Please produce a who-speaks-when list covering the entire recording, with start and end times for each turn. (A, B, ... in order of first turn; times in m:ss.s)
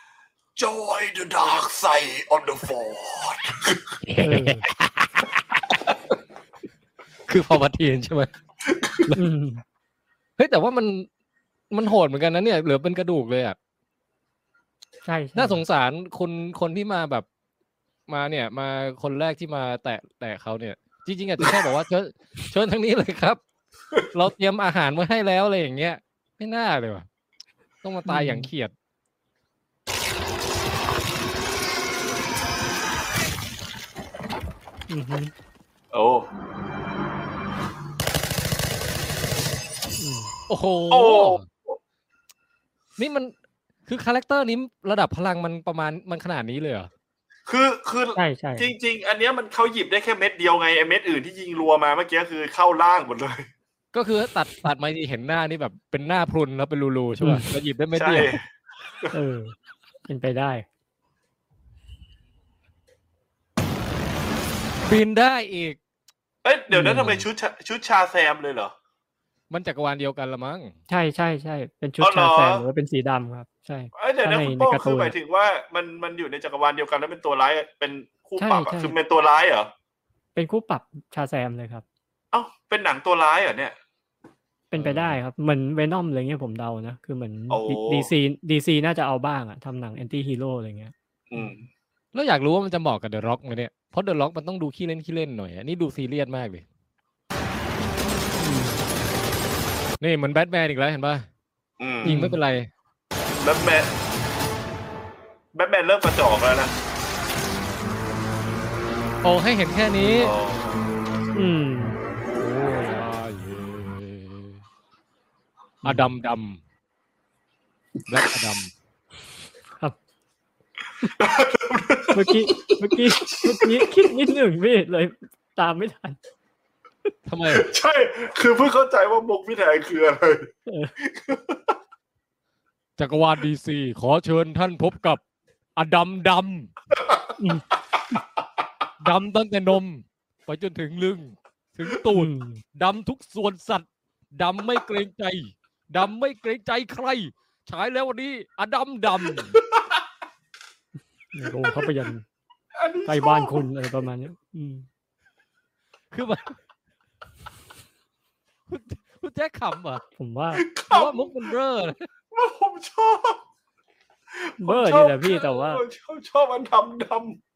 0:00.6-0:03.9 A
0:04.1-0:05.1 B
0:04.2-0:04.6 C
0:07.3-0:08.3 B
0:08.7-0:09.0 A
0:09.1-0:09.6 C
0:10.4-0:11.1 B
0:11.7-0:13.6 B
0:15.0-0:15.6 C
0:15.4-0:17.2 B
0:18.1-0:23.4 B
0:24.1-0:27.1 B
0:27.8-0:28.7 B
0:28.1-0:28.5 C
0:34.9-0:35.3 C
0:35.9-0:36.3 A
0:40.0-0:40.3 C
0:40.5-0:41.4 B
0:40.9-0:41.8 A
0:43.0-0:43.3 B
0:43.9-0:46.9 B
0:47.5-0:53.5 A
0:48.2-0:48.7 C
0:53.9-0:58.4 B
0:57.2-0:57.5 C
0:58.0-0:58.4 A
0:59.1-0:59.6 C
1:00.1-1:00.7 C
1:04.8-1:05.8 B
1:06.4-1:08.7 A
1:06.7-1:07.3 C
1:09.5-1:10.8 B
1:10.9-1:15.2 C
1:12.0-1:12.6 A
1:13.9-1:19.7 A
1:18.4-1:19.0 C
1:20.4-1:21.8 C
1:22.3-1:23.8 A
1:24.7-1:31.5 C
1:24.8-1:25.2 B
1:27.5-1:28.1 A
1:31.3-1:31.7 A
1:32.1-1:36.6 B
1:38.4-1:38.8 C
1:40.0-1:41.2 B
1:41.8-1:42.1 A
1:42.0-1:42.4 C
1:42.0-1:42.7 B
1:43.4-1:43.9 A
1:45.5-1:46.7 A
1:49.2-1:50.4 B
1:50.2-1:50.8 A
1:51.4-1:52.0 C
1:52.4-1:54.6 B
1:55.8-1:56.6 B
1:58.1-1:58.7 B
2:01.2-2:02.5 A
2:02.1-2:06.2 C
2:03.4-2:03.8 A
2:07.3-2:07.7 B
2:07.5-2:10.5 A
2:10.7-2:11.0 C
2:11.0-2:11.8 A
2:13.0-2:15.2 B
2:15.8-2:16.7 B
2:16.9-2:17.3 A
2:17.4-2:17.6 C
2:19.0-2:29.6 B
2:22.1-2:22.6 C
2:29.7-2:30.0 A
2:31.3-2:32.2 C
2:32.8-2:33.6 A
2:33.1-2:34.9 C
2:36.1-2:36.6 B
2:38.7-2:40.0 B
2:40.2-2:40.6 C
2:40.6-2:41.3 A
2:40.9-2:42.1 B
2:42.3-2:43.4 A
2:44.3-2:47.4 A
2:44.6-2:45.8 C